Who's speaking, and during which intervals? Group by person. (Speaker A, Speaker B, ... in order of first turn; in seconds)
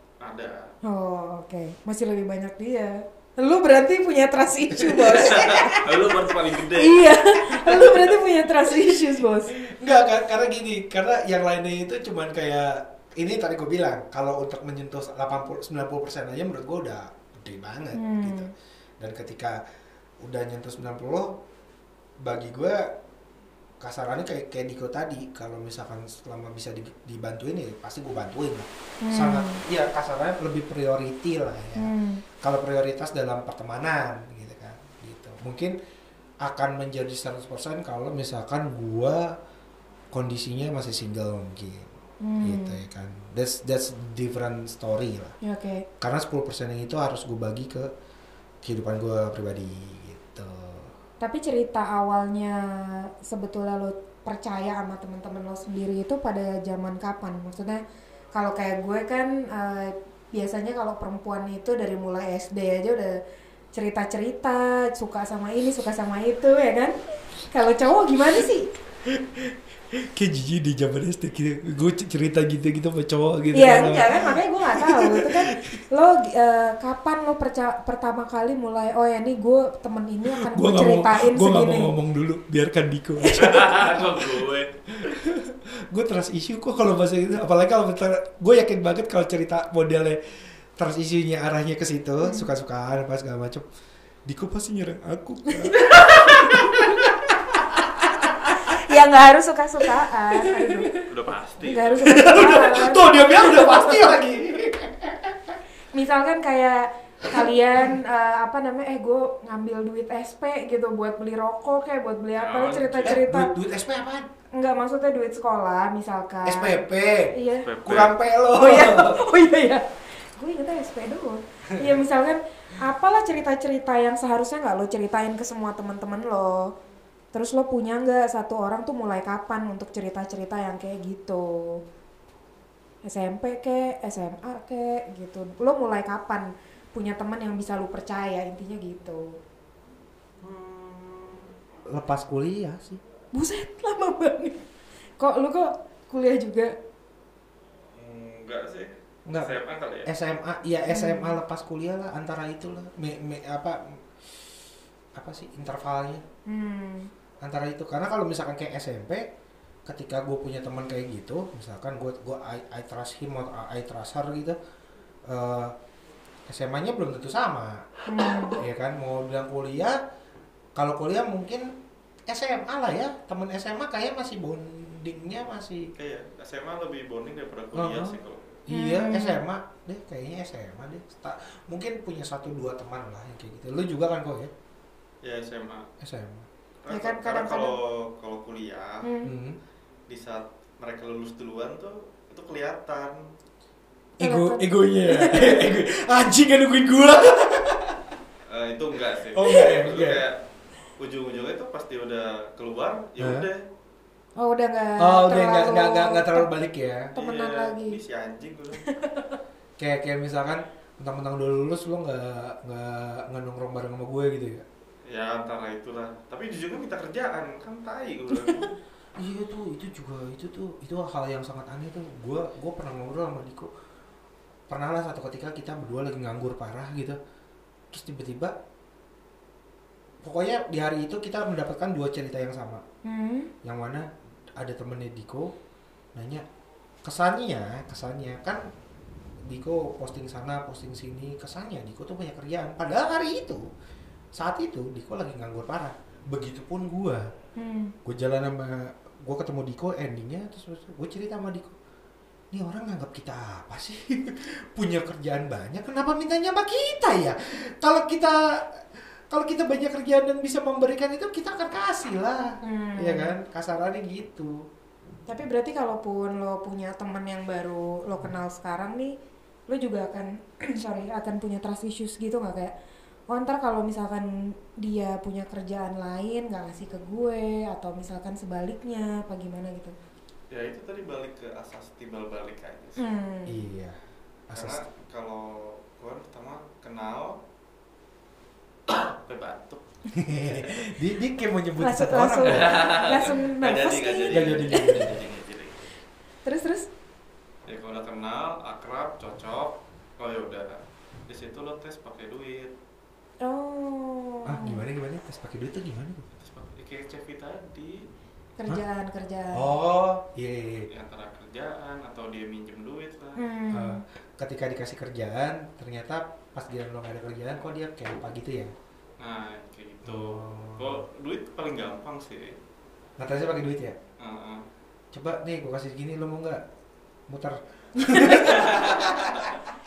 Speaker A: 0.2-0.7, 5.0-7.1, 83.3-84.7, 101.1-102.2, 112.4-113.2, 117.7-118.1, 140.4-141.5, 147.9-150.1, 176.0-178.4, 185.2-185.9, 186.8-189.1, 190.1-193.3, 198.5-200.4, 201.0-203.7, 207.1-208.9, 215.1-218.7, 280.5-283.0, 284.5-287.4, 288.9-289.8, 290.5-290.8, 292.4-295.8, 297.7-302.7, 306.4-308.1, 310.9-313.4, 319.2-322.6, 324.2-324.6, 328.4-329.0
Speaker B: 0.8-6.1, 6.6-9.5, 17.9-18.5, 29.0-29.6, 31.8-32.2, 42.2-42.8, 45.4-45.9, 51.2-57.8, 58.3-63.2, 63.7-67.0, 67.5-68.7, 73.5-81.9, 83.2-83.7, 92.2-92.5, 98.5-100.9, 101.6-104.0, 105.9-113.5, 114.5-116.8, 117.3-117.7, 118.5-126.7, 127.3-131.8, 133.0-139.4, 143.3-144.7, 145.2-146.8, 150.9-151.4, 156.5-157.1, 168.1-168.6, 178.7-179.4, 186.9-187.8, 189.0-189.3, 194.2-195.6, 204.4-206.5, 207.2-208.0, 208.8-209.4, 233.1-233.5, 247.6-247.9, 262.6-263.3, 265.3-269.2, 269.7-272.7, 273.3-279.9, 283.0-283.6, 291.8-295.0, 296.4-296.9, 303.4-304.8, 308.6-309.7, 313.4-314.0, 328.0-328.6
Speaker C: 4.8-5.2, 8.7-19.6, 20.2-21.4, 22.2-22.9, 23.8-31.9, 32.4-35.7, 36.4-39.3, 40.1-41.9, 42.4-45.3, 46.0-47.9, 48.6-50.9, 69.1-75.8, 80.3-84.4, 85.0-90.2, 90.8-93.7, 94.3-98.9, 100.3-101.0, 102.0-105.6, 107.2-107.5, 113.0-114.3, 116.4-117.3, 117.8-119.2, 141.9-143.0, 149.3-154.1, 155.2-156.2, 157.4-159.3, 159.9-164.6, 165.3-165.7, 166.5-167.9, 168.6-170.0, 170.8-171.7, 172.3-175.9, 177.7-184.5, 186.0-186.5, 189.2-189.6, 194.2-198.1, 199.3-200.2, 203.2-203.5, 205.0-207.1, 209.8-214.7, 219.2-223.7, 224.7-227.2, 227.9-228.6, 230.2-232.8, 233.6-235.5, 236.2-236.4, 237.0-238.6, 239.4-243.7, 244.3-247.3, 248.1-251.8, 252.5-264.7, 283.5-284.8, 290.1-292.8, 294.3-295.2, 304.4-306.3, 309.5-310.9, 313.7-318.7, 320.1-321.0, 323.2-324.0, 325.1-326.6, 327.3-329.6